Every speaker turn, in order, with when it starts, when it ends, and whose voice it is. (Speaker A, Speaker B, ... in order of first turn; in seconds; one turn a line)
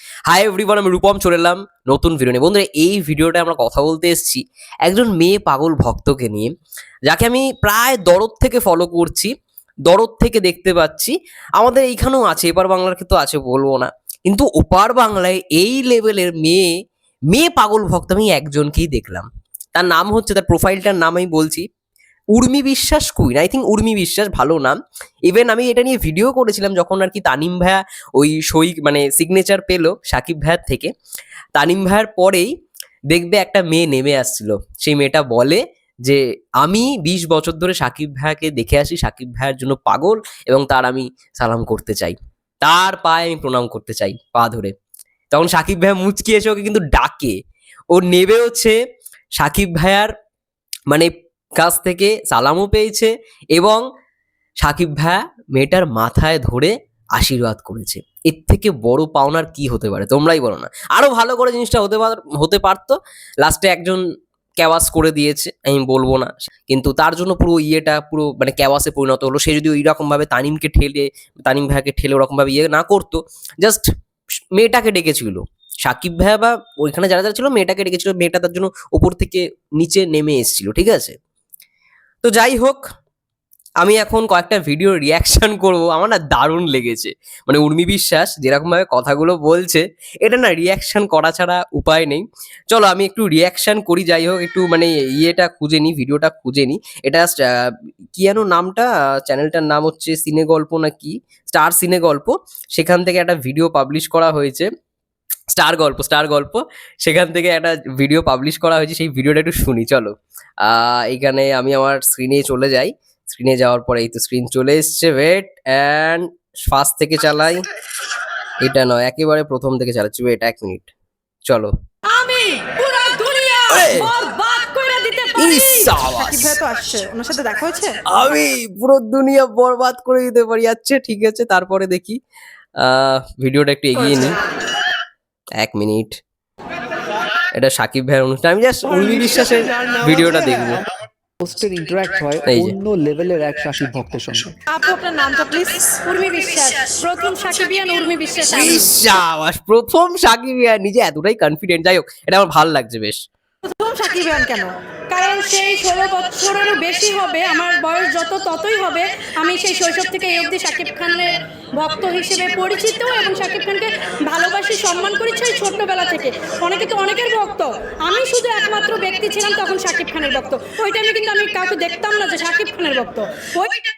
Speaker A: 0.3-6.5
Speaker A: 7.1-9.3
Speaker A: 9.9-16.7
Speaker A: 17.3-21.6
Speaker A: 22.3-30.9
Speaker A: 31.6-32.5
Speaker A: 33.1-44.7
Speaker A: 45.3-47.4
Speaker A: 47.9-48.8
Speaker A: 49.4-50.1
Speaker A: 50.9-53.8
Speaker A: 54.6-64.0
Speaker A: 64.6-73.8
Speaker A: 74.5-81.1
Speaker A: 82.2-82.8
Speaker A: 83.8-104.7
Speaker A: 105.5-110.1
Speaker A: 110.6-117.6
Speaker A: 118.6-120.9
Speaker B: 122.0-128.0
Speaker A: 123.7-124.1
Speaker A: 125.4-126.6
Speaker A: 128.1-132.2
Speaker A: 132.8-134.4
Speaker A: 135.6-136.1
Speaker A: 137.5-140.8
Speaker C: 141.4-144.6
Speaker A: 142.5-142.7
Speaker B: 144.7-149.0
Speaker A: 148.5-153.2
Speaker B: 153.7-173.8